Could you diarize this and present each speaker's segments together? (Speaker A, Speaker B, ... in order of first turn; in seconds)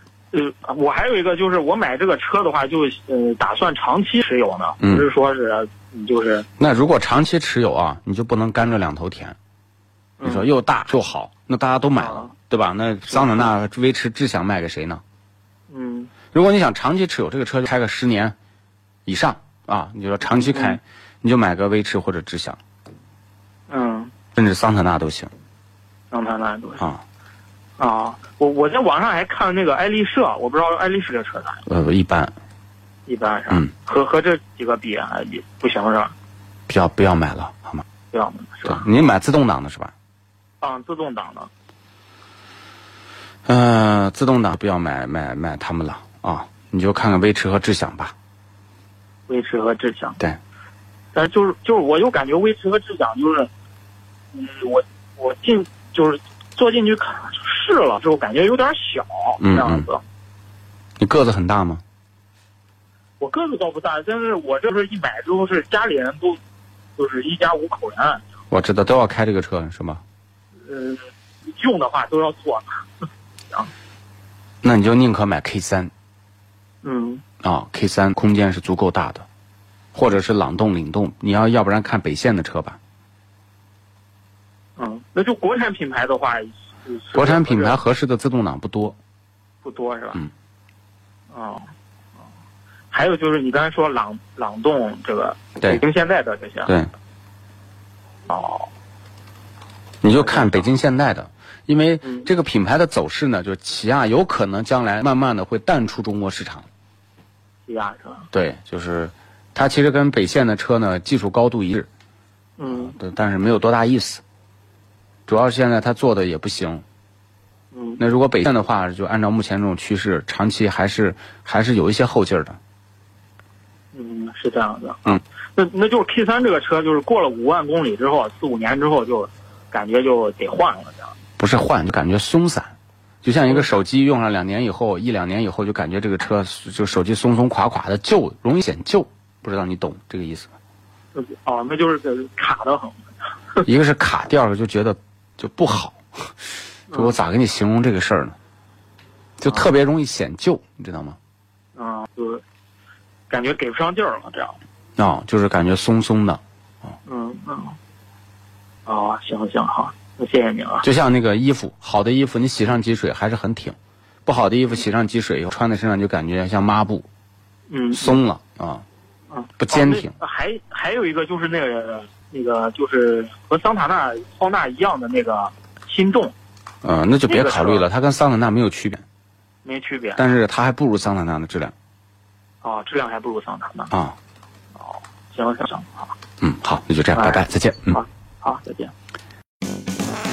Speaker A: 0.3-6.5, 10.2-10.5, 12.0-12.3, 13.1-13.5, 15.7-16.1, 20.4-20.8, 23.7-24.1, 26.1-26.8, 27.8-31.6, 33.0-36.1, 38.1-38.9, 40.6-41.5, 49.3-50.2, 51.1-53.5, 54.3-60.0, 63.2-66.4, 67.0-68.2, 70.6-72.9, 76.8-77.2, 84.8-87.8, 89.6-90.2, 91.3-91.7, 92.9-96.7, 98.3-98.7, 100.2-100.7, 107.7-108.2, 112.6-112.9, 117.7-118.0, 123.9-131.1, 141.1-143.6, 146.9-147.2, 151.7-152.4, 153.3-154.6, 157.1-157.8, 158.8-160.8, 167.7-168.2, 169.3-176.3, 177.3-177.8, 179.6-180.2, 182.6-183.9, 184.7-186.1, 187.1-188.9
Speaker B: 4.8-5.0, 6.6-9.4, 10.2-15.0, 16.3-18.3, 19.1-22.6, 24.4-25.3, 31.7-32.3, 36.7-37.8, 38.6-39.9, 43.5-48.1, 59.4-59.9, 61.0-61.8, 68.5-70.0, 74.6-75.9, 77.4-79.3, 79.9-82.8, 87.1-89.0, 96.7-96.9, 100.0-106.7, 108.3-111.9, 112.7-114.2, 115.3-116.8, 118.0-122.6, 131.4-140.5, 143.6-146.3, 146.9-148.3, 149.4-151.2, 155.0-156.4, 160.8-167.1, 167.9-168.8, 169.6-170.1, 176.8-179.0, 180.2-181.7, 183.9-184.2, 186.4-188.0